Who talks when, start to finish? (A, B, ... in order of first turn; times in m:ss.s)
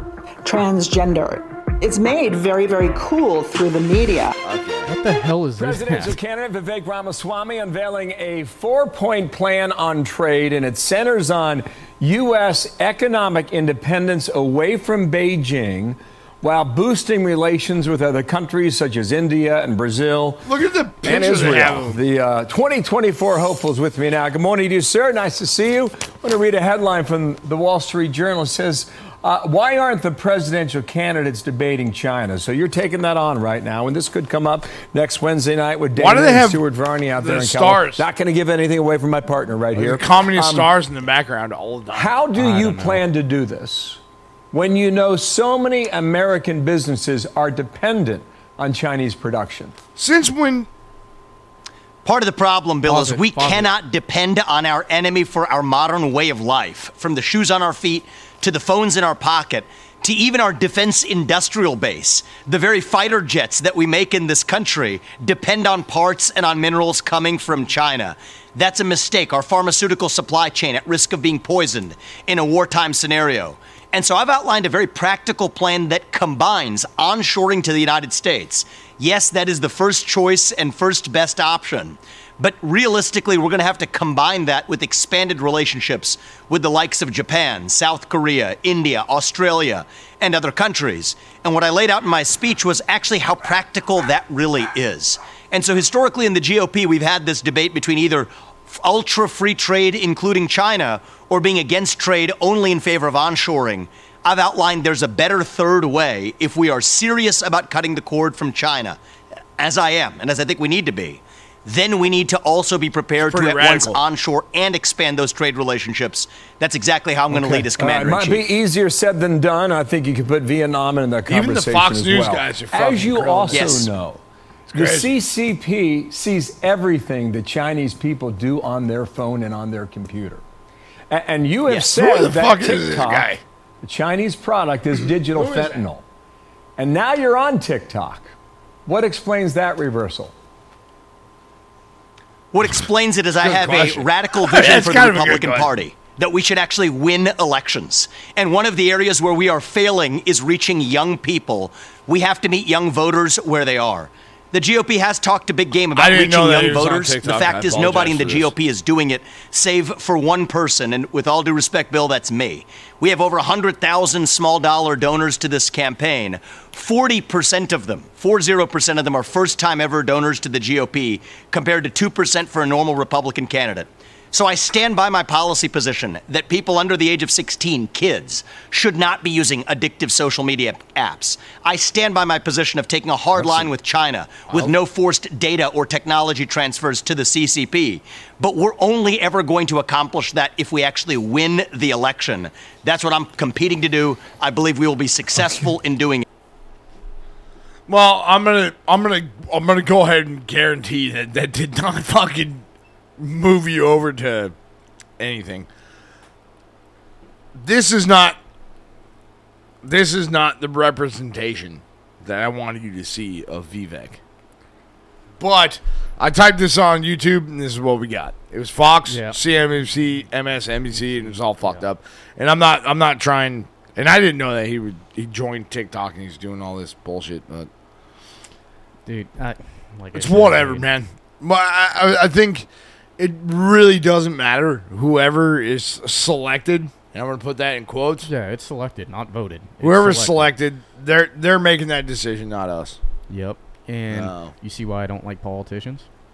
0:00.4-0:04.3 A
0:04.4-0:04.9 B
0:04.9-0:06.2 C
0:05.6-0:20.5 D
0:20.4-0:22.0 B
0:21.0-0:40.7 D
0:36.0-0:38.1 B
0:39.7-0:42.1 B
0:41.9-0:44.0 D
0:42.3-0:43.0 C
0:44.5-0:49.7 D
0:50.0-0:50.7 B
0:52.0-1:49.0 E
0:52.9-0:53.7 C
1:49.6-1:58.4 E
1:53.2-1:54.0 B
1:57.3-2:10.4 D
2:01.3-2:03.9 B
2:03.5-2:03.9 E
2:04.7-2:05.1 B
2:11.1-2:16.0 D
2:11.7-2:12.0 E
2:11.9-2:13.4 B
2:15.2-2:15.8 B
2:16.8-2:18.3 D
2:18.9-2:20.3 D
2:22.5-3:16.2 E
2:23.4-2:25.8 B
2:35.9-2:38.5 B
3:03.3-3:03.7 B
3:04.5-3:04.8 B
3:17.9-3:22.6 B
3:23.2-3:24.6 B
3:25.2-3:25.7 B
3:27.5-3:28.4 B
3:29.8-3:34.2 B
3:35.4-3:47.7 B
3:39.1-3:39.4 C
3:40.9-3:41.9 C
3:49.0-3:50.9 C
3:50.1-3:58.3 B
3:58.2-4:00.5 C
3:59.8-4:03.0 B
4:03.3-4:06.1 C
4:04.1-4:04.5 B